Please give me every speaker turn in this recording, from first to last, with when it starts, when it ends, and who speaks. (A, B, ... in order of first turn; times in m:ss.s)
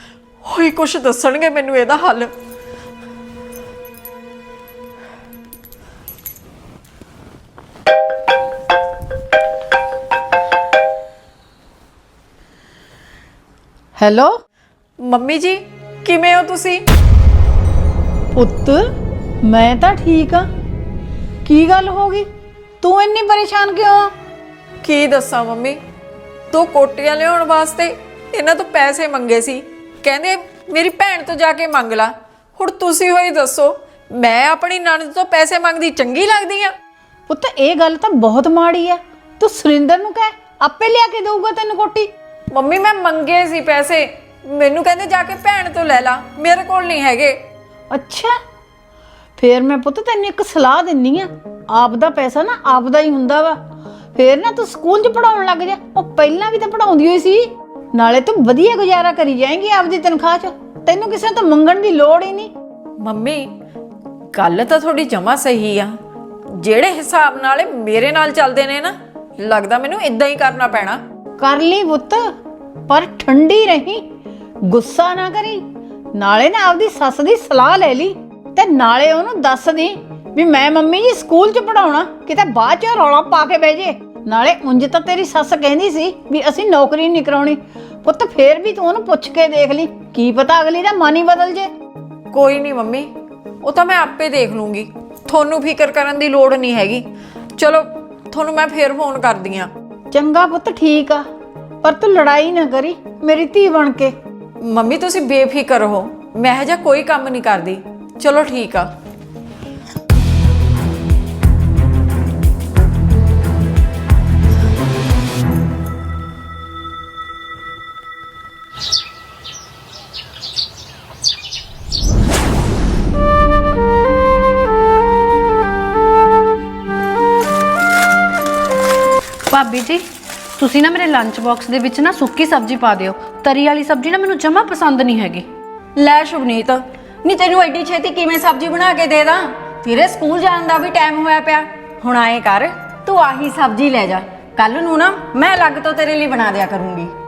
0:00.4-0:02.3 A
0:14.0-0:14.3 B
0:15.0-0:16.8 A
0:18.4-0:18.8 B
0:19.4-0:20.4 B
0:21.4-0:22.2 B
0:22.8-0:24.1 B
0:24.8-0:25.8 A
0:26.5-0:36.7 A
0:37.3-0:42.1 B
0:42.5-0:47.4 A
0:47.9-0:48.3 B
0:49.4-0:53.6 B
0:54.2-1:02.5 B
1:03.0-1:03.5 A
1:04.3-1:06.0 A
1:06.5-1:11.0 A
1:11.4-1:12.2 B
1:12.9-1:14.0 B
1:14.7-1:15.6 B
1:16.2-1:31.7 B
1:32.3-1:33.1 A
1:33.6-1:37.0 A
1:37.6-1:39.7 A
1:40.1-1:41.2 B
1:41.8-1:44.1 B
1:44.6-1:48.9 A
2:09.5-2:10.0 C
2:10.6-2:15.5 C
2:16.0-2:27.1 A